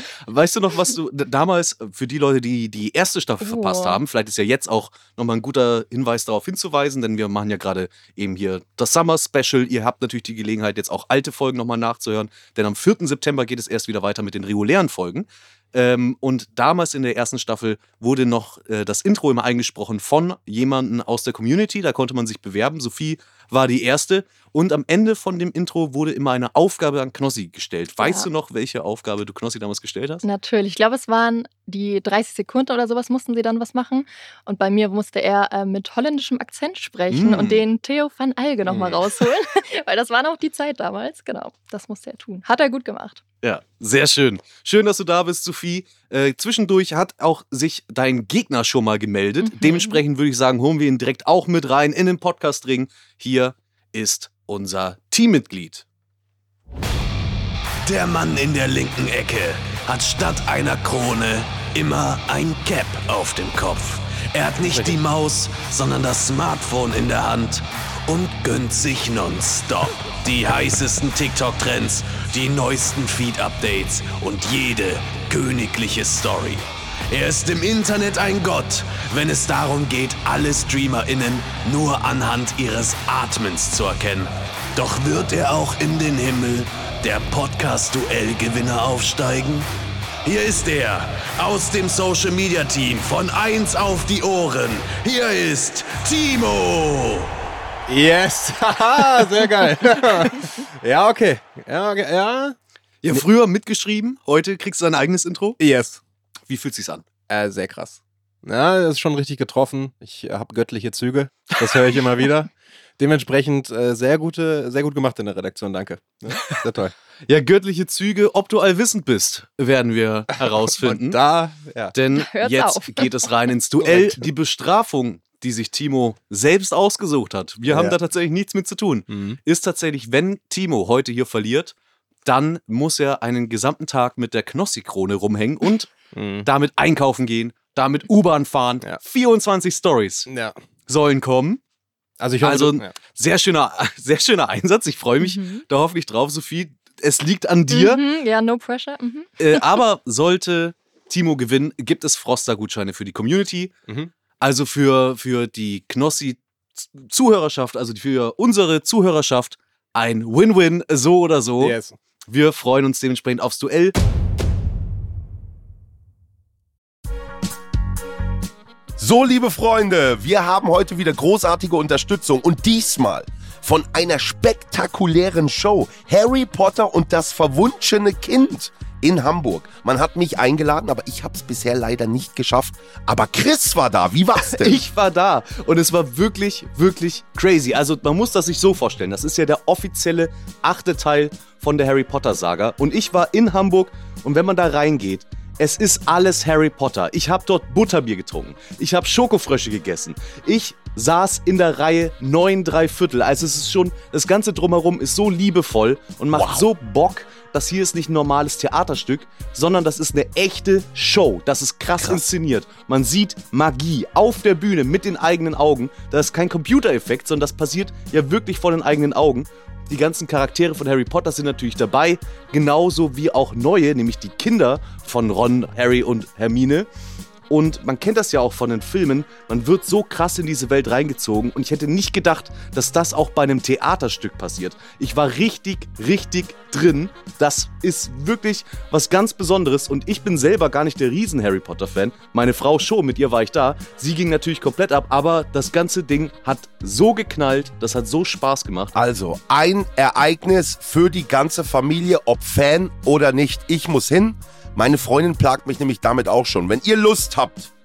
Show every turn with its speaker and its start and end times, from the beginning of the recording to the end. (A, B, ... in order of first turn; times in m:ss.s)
0:00.2-0:30.2 A
0:03.4-0:04.0 B
0:28.0-0:28.3 B
0:30.2-0:43.2 B
0:37.1-0:37.6 A
0:43.4-0:55.8 A
0:49.4-0:50.0 B
0:57.8-1:29.7 C
0:58.0-0:59.5 A
1:00.2-1:16.6 A
1:04.6-1:05.0 D
1:17.3-1:29.6 A
1:30.2-1:37.2 C
1:30.4-1:35.7 A
1:36.2-1:36.9 A
1:37.9-1:42.6 D
1:43.0-1:45.6 A
1:45.6-1:46.0 D
1:46.5-1:47.0 A
1:47.3-1:56.9 D
1:57.2-2:01.2 A
2:00.6-2:01.9 D
2:01.9-2:11.7 A
2:02.1-2:03.3 B
2:03.8-2:04.3 D
2:07.7-2:08.0 D
2:09.1-2:09.4 D
2:12.2-2:15.9 A
2:16.1-2:16.5 D
2:16.4-2:20.3 A
2:20.3-2:20.6 D
2:20.9-2:21.6 A
2:22.2-2:22.9 D
2:22.4-2:28.0 A
2:25.2-2:25.6 B
2:27.7-2:29.8 B
2:29.4-2:33.7 A
2:34.4-2:41.8 A
2:41.6-2:42.0 D
2:42.3-2:44.0 A
2:49.0-3:04.8 E
3:04.5-3:46.9 A
3:26.3-3:26.7 E
3:32.0-3:32.2 E
3:47.5-4:08.9 A
4:08.9-4:17.7 E